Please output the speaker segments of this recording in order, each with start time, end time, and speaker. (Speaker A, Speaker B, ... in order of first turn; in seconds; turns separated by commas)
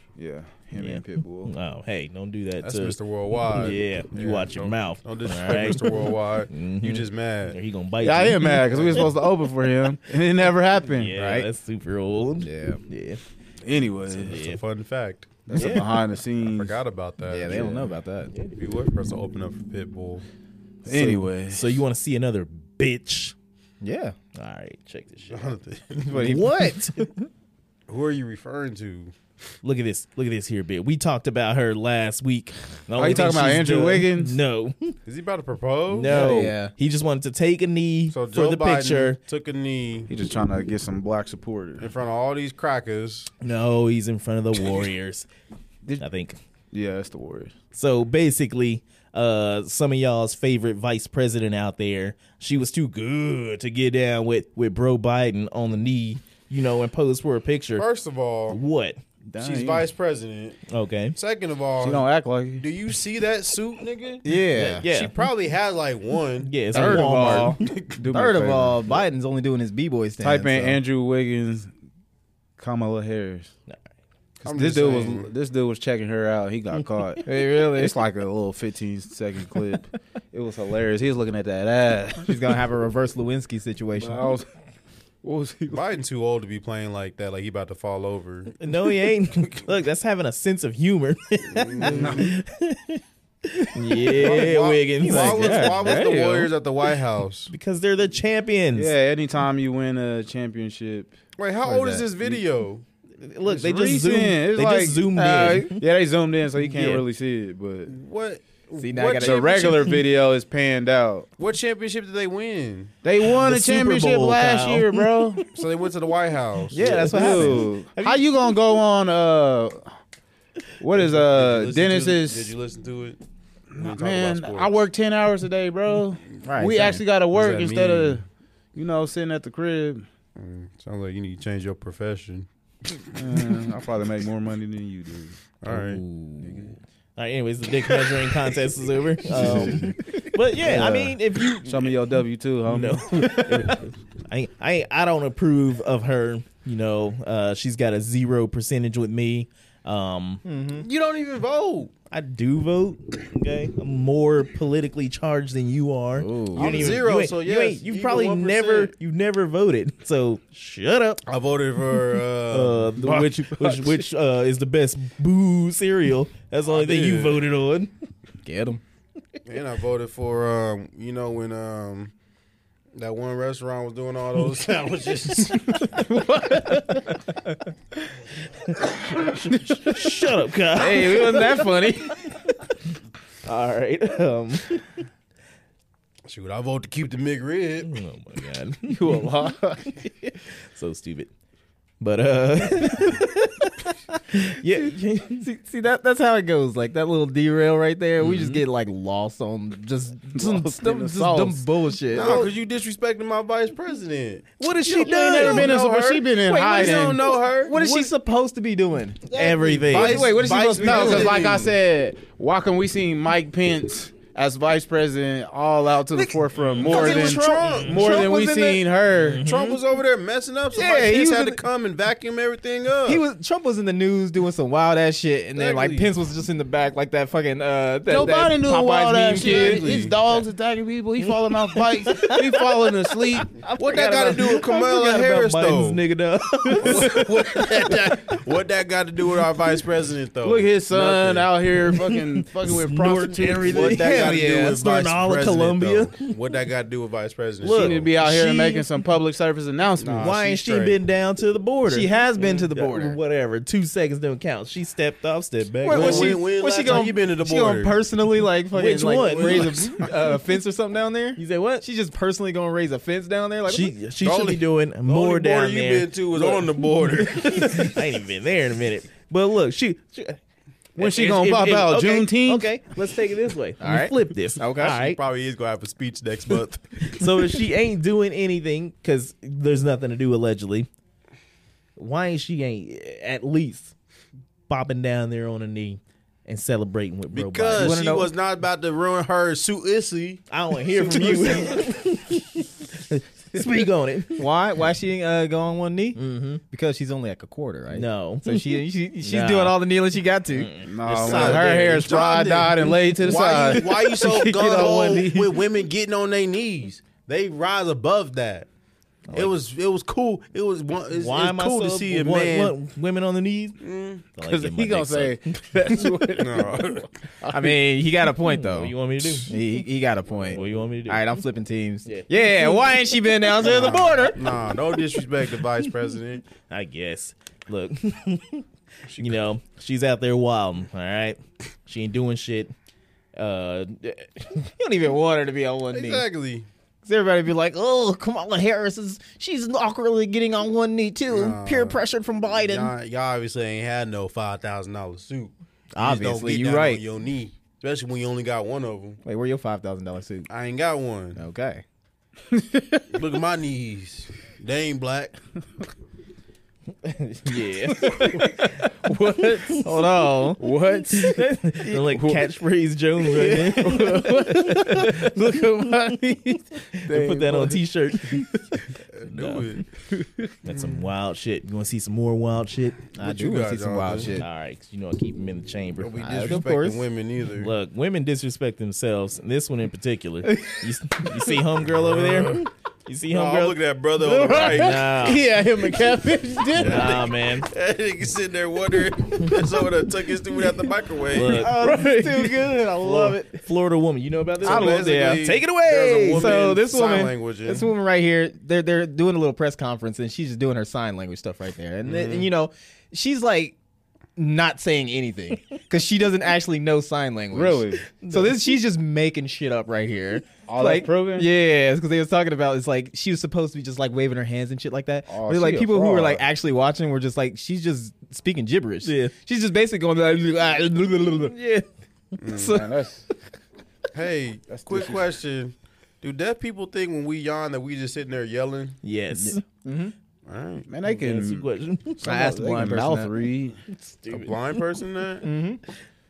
Speaker A: 0.2-1.5, Speaker B: 0.8-3.0, Speaker C: 2.6-7.6, Speaker B: 3.5-9.0, Speaker A: 8.0-11.1, Speaker C: 8.7-9.0, Speaker B: 10.9-13.2, Speaker D: 11.1-11.5, Speaker D: 12.4-12.8, Speaker A: 13.6-14.4, Speaker C: 14.1-17.9, Speaker B: 14.2-14.6, Speaker A: 15.4-16.8, Speaker B: 15.5-15.9, Speaker D: 17.2-18.3, Speaker C: 18.6-20.2, Speaker A: 20.9-21.8, Speaker B: 20.9-23.3, Speaker D: 23.8-24.1, Speaker B: 24.3-25.6, Speaker C: 25.3-26.4, Speaker D: 26.0-27.1, Speaker B: 26.1-27.1, Speaker C: 27.9-29.1, Speaker B: 29.6-35.0, Speaker A: 33.0-34.4, Speaker C: 35.0-36.2, Speaker B: 35.9-39.2, Speaker D: 36.1-36.7, Speaker C: 38.1-40.1, Speaker A: 40.1-41.9, Speaker C: 41.8-43.3, Speaker B: 43.4-45.3, Speaker B: 46.0-46.4, Speaker A: 46.7-47.5, Speaker B: 47.7-57.9, Speaker C: 57.8-58.6, Speaker B: 58.5-59.0, Speaker A: 59.3-59.8, Speaker C: 59.4-60.6, Speaker B: 60.7-61.1, Speaker C: 61.1-62.0, Speaker A: 61.8-62.6, Speaker C: 62.6-67.9, Speaker D: 64.2-64.8, Speaker B: 64.7-65.1, Speaker B: 66.4-67.6, Speaker D: 66.7-70.8, Speaker A: 68.0-68.9, Speaker A: 70.2-71.7, Speaker A: 72.6-73.5, Speaker A: 74.4-82.5, Speaker C: 74.4-75.3, Speaker D: 77.2-78.0, Speaker D: 82.2-84.3, Speaker A: 84.0-84.5, Speaker A: 85.2-85.8, Speaker C: 85.7-88.6, Speaker B: 88.6-95.9, Speaker C: 91.5-92.3, Speaker A: 91.9-92.3, Speaker C: 94.1-97.5, Speaker D: 95.0-96.5, Speaker B: 97.5-98.9, Speaker A: 98.7-102.4, Speaker C: 101.4-102.8, Speaker B: 103.2-105.8, Speaker A: 103.5-105.1, Speaker D: 105.1-105.7, Speaker A: 105.7-107.9, Speaker B: 106.6-107.0, Speaker C: 107.9-109.9, Speaker D: 108.8-109.7, Speaker A: 109.1-111.3, Speaker C: 111.4-112.9, Speaker A: 113.0-115.5, Speaker B: 113.2-115.3, Speaker C: 115.5-117.2, Speaker D: 116.7-117.7, Speaker B: 116.8-118.2, Speaker A: 116.8-119.9, Speaker A: 120.8-122.5, Speaker C: 120.9-123.2, Speaker A: 123.7-128.2, Speaker C: 123.8-124.7, Speaker D: 126.4-127.0, Speaker C: 127.3-128.2, Speaker A: 128.7-130.1, Speaker C: 130.4-132.5, Speaker A: 133.1-135.4, Speaker C: 135.6-136.0, Speaker D: 135.7-136.7, Speaker A: 136.4-136.7, Speaker B: 137.2-142.1, Speaker A: 139.3-139.9, Speaker D: 139.3-140.1, Speaker D: 140.6-141.1, Speaker A: 140.7-141.0, Speaker A: 141.6-143.8, Speaker B: 142.7-150.4, Speaker D: 150.4-150.9, Speaker C: 150.8-151.9, Speaker B: 152.1-161.2, Speaker D: 156.1-157.0, Speaker C: 156.5-158.9, Speaker C: 161.2-162.9, Speaker B: 162.5-167.9, Speaker D: 163.1-163.9, Speaker C: 166.7-167.4, Speaker D: 168.4-168.8, Speaker C: 169.4-172.1, Speaker C: 172.9-175.9, Speaker A: 176.0-176.7, Speaker D: 176.7-177.0, Speaker B: 178.5-181.7, Speaker D: 180.7-182.2, Speaker B: 182.2-182.6, Speaker B: 183.4-185.0, Speaker C: 186.2-187.9, Speaker B: 187.8-191.3, Speaker A: 188.9-190.0, Speaker B: 192.0-195.5, Speaker D: 195.3-202.4, Speaker B: 198.2-198.6, Speaker A: 200.3-202.5, Speaker C: 202.1-204.5, Speaker B: 204.6-205.7, Speaker A: 204.9-207.4, Speaker D: 204.9-205.6, Speaker C: 205.3-207.8, Speaker D: 206.4-209.2, Speaker B: 207.8-208.1, Speaker B: 209.3-210.4, Speaker C: 209.4-211.7, Speaker A: 209.4-219.4, Speaker D: 209.9-211.4, Speaker B: 216.2-218.3, Speaker C: 216.8-218.8, Speaker B: 219.1-219.8, Speaker C: 219.4-223.2, Speaker D: 220.7-221.6, Speaker D: 223.0-229.8, Speaker C: 225.5-226.1, Speaker A: 228.1-233.6, Speaker C: 229.3-230.2, Speaker B: 232.0-232.5, Speaker B: 233.5-237.9, Speaker C: 233.8-236.0, Speaker C: 236.8-241.6, Speaker D: 236.8-237.2, Speaker A: 240.4-244.1, Speaker B: 241.9-246.3, Speaker C: 243.1-248.2, Speaker D: 244.0-244.4, Speaker B: 247.6-248.9, Speaker A: 247.7-251.0, Speaker C: 250.0-250.3, Speaker B: 250.1-256.4, Speaker D: 251.9-253.2, Speaker D: 255.8-263.9, Speaker C: 255.9-257.9, Speaker B: 258.7-259.9, Speaker C: 259.1-260.1, Speaker B: 261.4-261.8, Speaker B: 263.7-270.4, Speaker C: 264.2-268.0, Speaker A: 270.9-272.7, Speaker B: 271.0-275.2, Speaker D: 273.8-275.0, Speaker C: 274.8-277.2, Speaker B: 277.0-280.9, Speaker B: 282.0-283.9, Speaker B: 284.7-288.0, Speaker C: 287.3-291.9, Speaker D: 287.8-288.3, Speaker B: 290.5-294.4, Speaker D: 294.4-300.7, Speaker B: 296.1-296.6, Speaker B: 297.9-299.8, Speaker B: 300.5-302.1, Speaker A: 300.8-305.5, Speaker C: 301.1-308.7, Speaker D: 303.4-305.4, Speaker C: 309.3-312.7, Speaker B: 311.1-313.8, Speaker C: 313.8-314.2, Speaker B: 314.3-316.1, Speaker A: 314.4-317.8, Speaker C: 316.4-317.1, Speaker D: 317.5-318.9, Speaker B: 318.5-319.6, Speaker D: 319.4-324.6, Speaker B: 320.5-321.3, Speaker B: 322.0-324.1, Speaker C: 323.8-326.4, Speaker B: 326.7-332.7, Speaker B: 333.4-334.5, Speaker D: 334.5-336.2, Speaker C: 335.9-336.7, Speaker D: 337.0-342.9, Speaker C: 341.3-349.2, Speaker D: 345.9-347.0, Speaker D: 349.2-350.5, Speaker C: 350.5-351.4, Speaker D: 351.3-351.8, Speaker A: 352.5-353.0, Speaker C: 353.1-355.4, Speaker B: 357.0-358.5, Speaker D: 357.9-358.7, Speaker A: 358.1-362.4, Speaker D: 359.8-360.7, Speaker B: 361.1-368.5, Speaker A: 363.3-368.6, Speaker D: 363.6-365.2, Speaker C: 369.0-369.8, Speaker B: 369.2-369.8, Speaker A: 370.1-370.5, Speaker B: 370.6-373.0, Speaker C: 370.7-371.0, Speaker C: 373.1-374.3, Speaker D: 373.2-374.4, Speaker B: 374.4-376.2, Speaker C: 376.0-377.7, Speaker D: 376.2-377.1, Speaker B: 377.6-383.8, Speaker D: 380.5-380.8, Speaker C: 381.9-382.6, Speaker C: 383.3-385.1, Speaker A: 384.2-387.2, Speaker B: 384.6-385.4, Speaker C: 386.7-391.8, Speaker B: 386.7-387.7, Speaker B: 391.3-396.6, Speaker D: 391.4-393.6, Speaker C: 394.6-397.9, Speaker D: 394.6-395.5, Speaker D: 396.3-403.8, Speaker C: 402.1-402.5, Speaker D: 404.4-421.5, Speaker A: 407.5-408.0, Speaker B: 408.1-408.5, Speaker A: 410.7-411.5, Speaker A: 415.3-416.4, Speaker B: 419.0-419.3, Speaker B: 421.5-421.8, Speaker C: 422.4-422.8, Speaker D: 422.4-422.9, Speaker A: 422.5-423.2, Speaker C: 424.1-429.0, Speaker A: 424.7-425.2, Speaker B: 429.0-429.6, Speaker D: 429.3-430.1, Speaker C: 430.4-430.9, Speaker A: 430.9-431.6, Speaker B: 431.0-432.5, Speaker A: 432.2-433.8, Speaker D: 432.2-433.3, Speaker B: 433.9-434.8, Speaker C: 434.3-435.5, Speaker D: 435.4-435.8